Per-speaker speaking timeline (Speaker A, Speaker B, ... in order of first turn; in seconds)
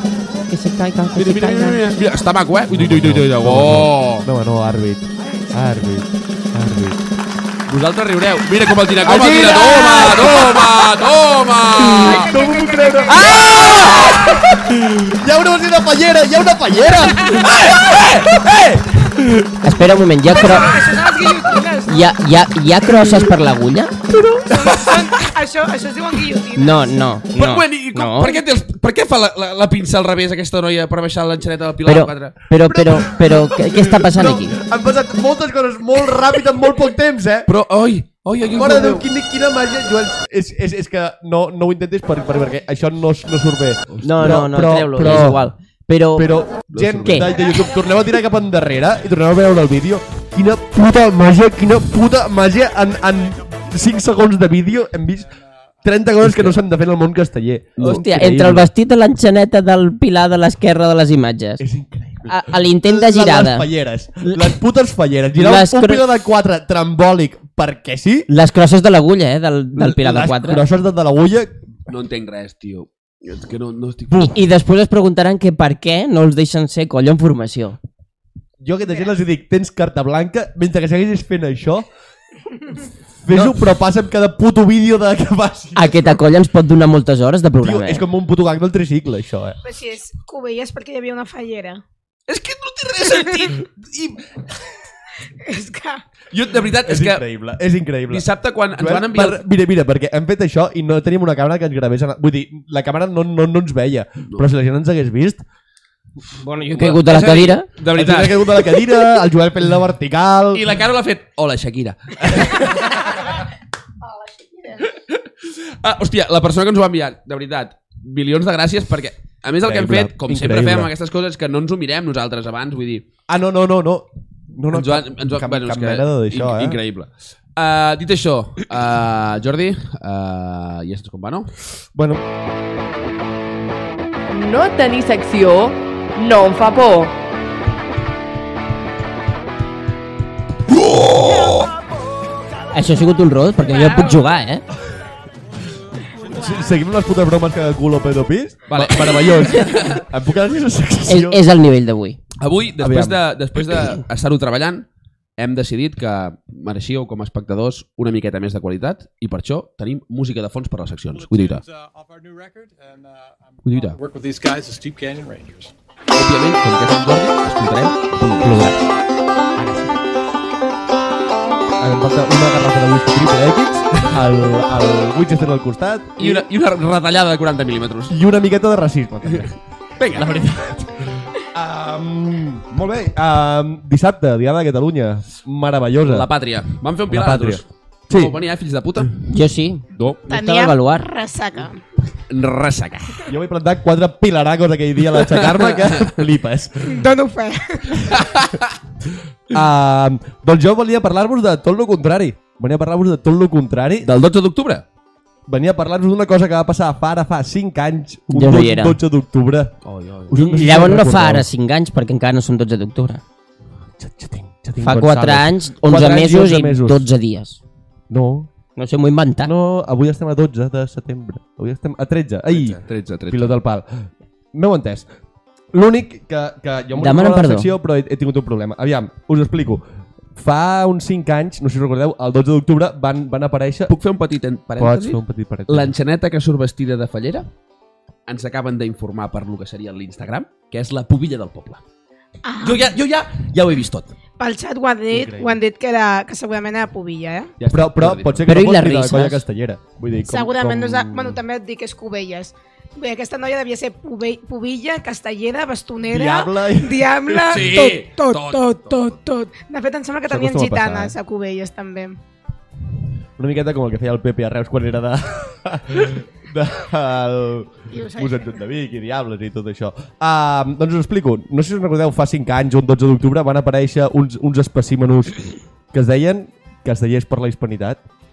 Speaker A: 0.5-1.8, 19.6-20.7, 21.9-23.9, 26.6-28.4, 31.9-34.6, 44.0-46.3, 47.0-47.3, 56.2-56.6, 57.8-61.6, 62.3-63.7, 64.2-64.5, 65.4-66.0, 68.3-70.6, 74.2-77.8, 85.8-88.0, 106.4-107.7, 142.7-144.6, 151.1-152.2, 189.3-191.1, 208.3-209.0, 210.3-213.2, 214.8-217.6, 218.8-219.5, 227.0-227.7, 248.5-249.4
Speaker B: 1.2-4.3, 7.7-12.4, 13.2-14.1, 17.2-18.5, 27.4-32.4, 37.5-39.1, 43.9-44.4, 46.7-47.4, 71.9-74.3, 83.3-83.6, 92.3-94.2, 96.3-97.2, 98.1-99.4, 106.8-109.0, 110.5-112.9, 114.9-123.1, 124.7-131.5, 140.9-141.6, 148.7-150.0, 152.4-154.9, 155.4-161.6, 163.7-164.0, 166.1-168.8, 176.2-178.1, 180.0-180.3, 186.0-189.2, 189.9-190.2, 192.3-193.3, 195.2-196.2, 198.1-198.7, 204.0-204.8, 209.8-210.3, 222.5-223.6, 233.9-237.5, 238.3-241.8, 242.6-244.1, 247.6-248.4, 257.5-259.0
Speaker C: 2.7-7.0, 9.0-10.8, 11.8-19.6, 24.1-24.8, 32.7-37.5, 38.5-45.5, 46.2-55.3, 55.8-58.7, 61.6-68.3, 69.8-71.6, 74.1-74.3, 78.6-81.9, 83.2-86.1, 87.6-89.6, 96.8-105.4, 107.9-110.7, 112.3-112.6, 119.6-120.9, 123.3-126.8, 131.9-132.2, 146.3-151.4, 152.8-153.2, 168.4-168.8, 169.6-170.0, 171.8-176.5, 178.1-179.6, 180.1-186.3, 187.1-188.4, 193.3-197.0, 199.5-204.1, 205.5-209.7, 210.3-211.5, 214.0-217.1, 218.1-218.5, 219.4-225.1, 225.7-229.8, 230.4-233.9, 234.8-235.9, 245.1-245.6, 247.6-251.4, 256.1-257.7, 260.3-261.2, 263.4-275.4, 275.9-278.0
Speaker D: 11.9-14.1, 20.3-22.1, 24.5-26.9, 89.6-91.8, 95.4-96.0, 114.0-114.9, 143.7-144.3, 146.3-146.6, 190.3-191.8, 196.8-198.2, 242.4-242.9, 244.4-247.5, 250.3-262.2, 267.9-268.6
Speaker E: 55.1-56.1, 146.0-146.6, 161.1-165.7
Speaker F: 134.3-137.2